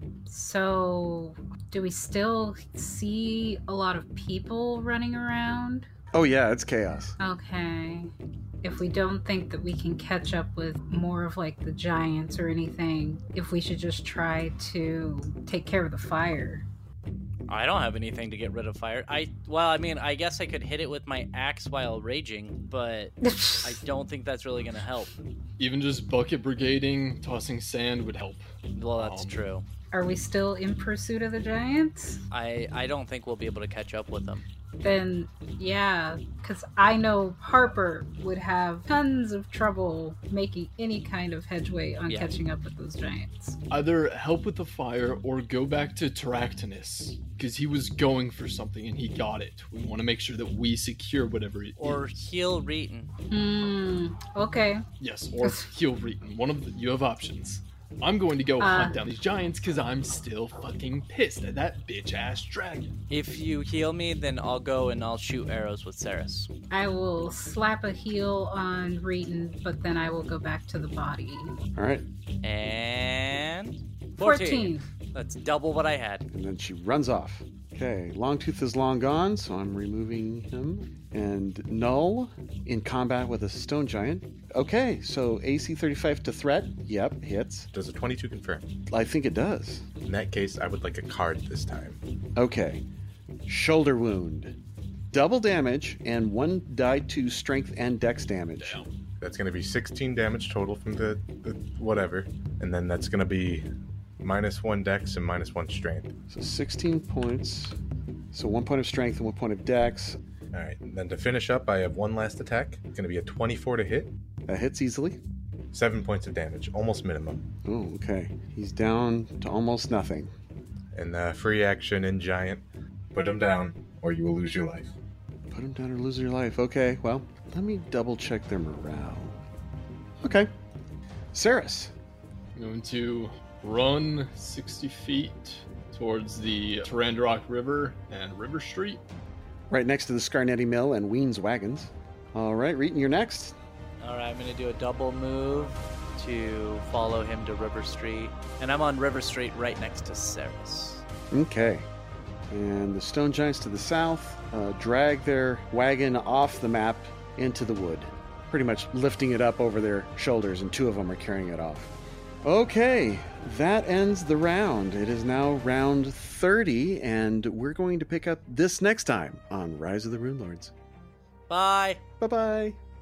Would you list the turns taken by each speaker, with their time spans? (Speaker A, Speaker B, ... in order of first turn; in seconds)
Speaker A: 0.3-5.9, 7.2-8.1, 8.6-16.6, 23.2-23.7, 29.9-32.2, 34.8-43.6, 53.3-54.8, 58.6-59.0, 66.7-71.5, 74.2-74.9
Speaker B: 6.1-7.2, 71.7-72.0, 76.3-87.7, 88.9-89.8, 92.3-92.8, 93.5-94.6, 95.1-98.8, 106.3-107.8, 108.3-110.2, 114.5-115.2, 117.6-120.3, 125.5-129.4, 130.2-130.5, 131.3-131.9, 139.7-143.6, 151.3-151.9, 152.5-161.9, 162.4-170.7, 172.2-172.8
Speaker C: 17.5-25.1, 28.7-29.6, 32.3-34.5, 51.8-53.1, 63.1-66.5, 72.4-76.2, 144.0-151.0, 171.5-172.0
Speaker D: 25.6-29.4, 43.7-52.1, 55.0-62.9, 98.6-98.9, 132.5-139.0
Speaker E: 87.7-88.7, 90.0-92.0, 99.2-103.7, 104.2-106.1, 110.5-114.1, 115.7-117.5, 120.9-124.9